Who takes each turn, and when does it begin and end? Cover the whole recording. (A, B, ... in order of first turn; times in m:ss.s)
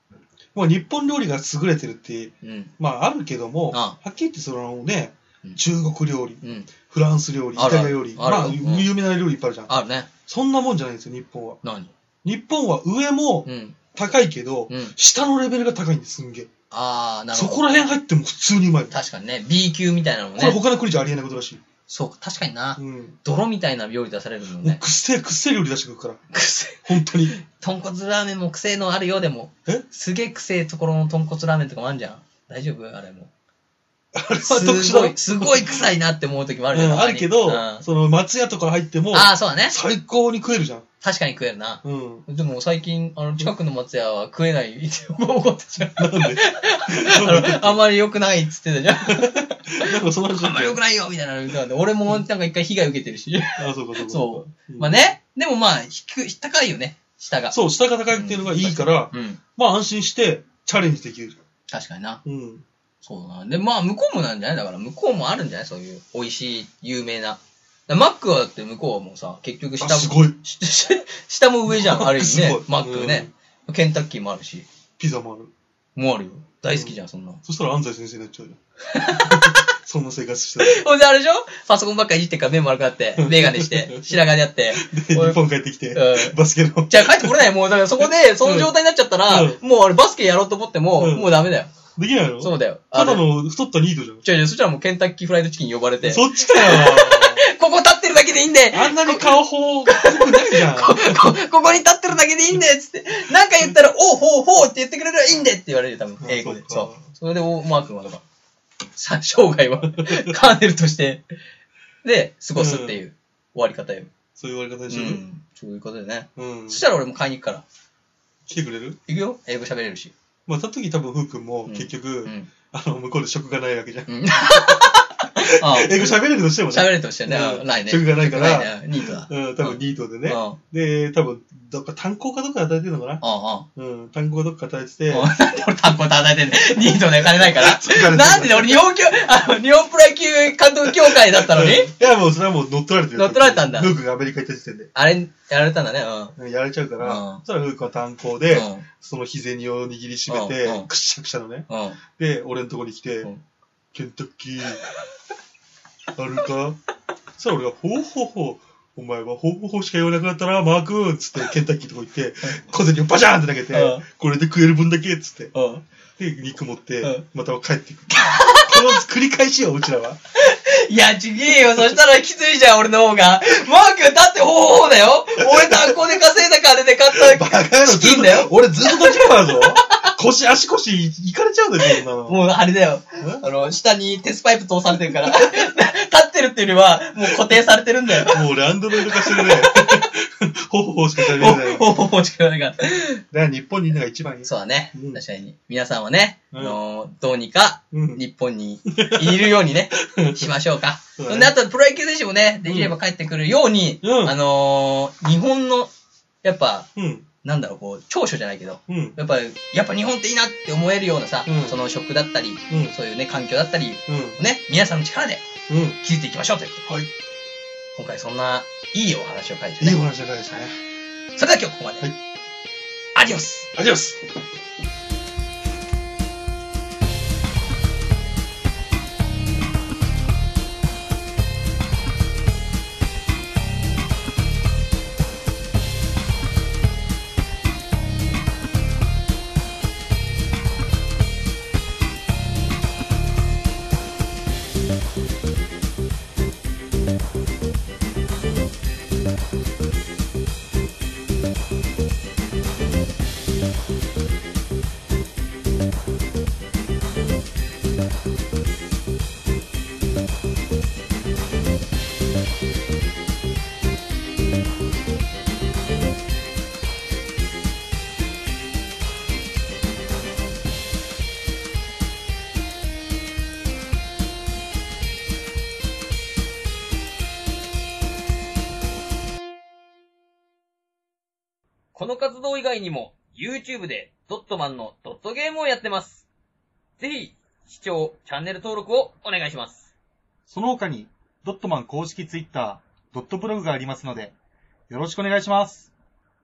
0:00.5-0:09.7 A
0:02.4-0:02.7 B
0:03.7-0:04.0 B
0:06.4-0:06.7 B
0:07.6-0:08.9 B
0:09.7-0:10.1 B
0:10.3-0:11.6 A
0:11.6-0:11.9 B
0:12.2-0:16.5 A
0:13.4-0:13.8 B
0:14.7-0:14.9 B
0:16.7-0:17.6 B
0:17.3-0:18.9 A
0:18.9-0:20.6 B
0:20.4-0:21.6 A
0:21.9-0:24.8 B
0:22.8-0:23.2 A
0:24.6-0:26.2 A
0:26.3-0:33.3 B
0:26.8-0:27.3 A
0:34.1-0:35.8 A
0:34.4-0:37.8 B
0:36.7-0:40.8 A
0:39.1-0:39.8 B
0:41.0-0:57.5 B
0:41.8-0:42.2 A
0:46.0-0:47.8 A
0:49.1-0:50.8 A
0:53.6-0:55.1 A
0:57.5-1:01.4 A
0:58.1-0:59.4 B
1:01.7-1:02.2 B
1:02.2-1:02.6 A
1:03.0-1:14.6 B
1:09.8-1:10.4 A
1:11.7-1:13.3 A
1:15.0-1:15.5 A
1:16.0-1:17.4 B
1:16.7-1:18.6 A
1:18.9-1:19.6 B
1:19.2-1:20.8 A
1:20.6-1:25.4 B
1:23.2-1:28.7 A
1:25.9-1:26.4 B
1:26.9-1:31.7 B
1:29.3-1:29.6 A
1:31.0-1:31.3 A
1:32.0-1:34.2 A
1:32.4-1:33.2 B
1:34.2-1:48.2 B
1:36.0-1:37.4 A
1:38.7-1:41.3 A
1:46.2-1:47.0 A
1:49.0-1:51.2 B
1:50.0-1:50.3 A
1:52.0-1:54.1 B
1:52.5-1:53.0 A
1:54.4-1:55.2 A
1:54.9-1:57.6 B
1:56.4-1:56.8 A
1:58.5-1:59.0 A
1:59.1-2:00.1 B
2:00.5-2:13.2 A
2:01.7-2:02.5 B
2:04.1-2:06.1 B
2:06.7-2:10.6 B
2:13.2-2:13.6 B
2:13.8-2:15.3 A
2:15.1-2:21.9 B
2:17.2-2:18.8 A
2:20.9-2:24.9 A
2:23.1-2:23.9 B
2:24.9-2:26.4 B
2:26.4-2:33.3 A
2:27.0-2:27.4 B
2:28.5-2:28.8 B
2:30.3-2:30.9 B
2:31.7-2:32.0 B
2:33.9-2:34.8 A
2:36.1-2:36.8 A
2:37.4-2:45.5 A
2:43.7-2:44.0 B
2:45.5-2:45.8 B
2:46.2-2:50.2 A
2:48.1-2:49.0 B
2:50.4-3:00.1 B
2:55.4-2:56.0 A
2:57.1-3:02.4 A
3:01.8-3:08.4 B
3:03.2-3:03.5 A
3:08.1-3:11.9 A
3:09.0-3:10.0 B
3:11.2-3:13.2 B
3:13.3-3:15.2 A
3:14.4-3:25.9 B
3:16.5-3:16.8 A
3:17.9-3:18.2 A
3:18.9-3:20.5 A
3:21.2-3:21.5 A
3:22.6-3:22.9 A
3:24.0-3:24.4 A
3:26.4-3:26.9 B
3:27.0-3:27.2 A
3:27.4-3:35.4 B
3:28.9-3:29.2 A
3:31.4-3:31.8 A
3:32.7-3:33.0 A
3:34.1-3:34.4 A
3:35.7-3:36.0 A
3:36.0-3:36.8 B
3:37.9-3:40.0 B
3:39.8-3:40.7 A
3:41.4-3:42.1 B
3:43.1-3:43.7 B
3:43.7-3:44.2 A
4:41.9-4:46.2 B
4:47.0-4:49.9 B
4:50.5-4:54.3 C
4:54.9-4:55.9 C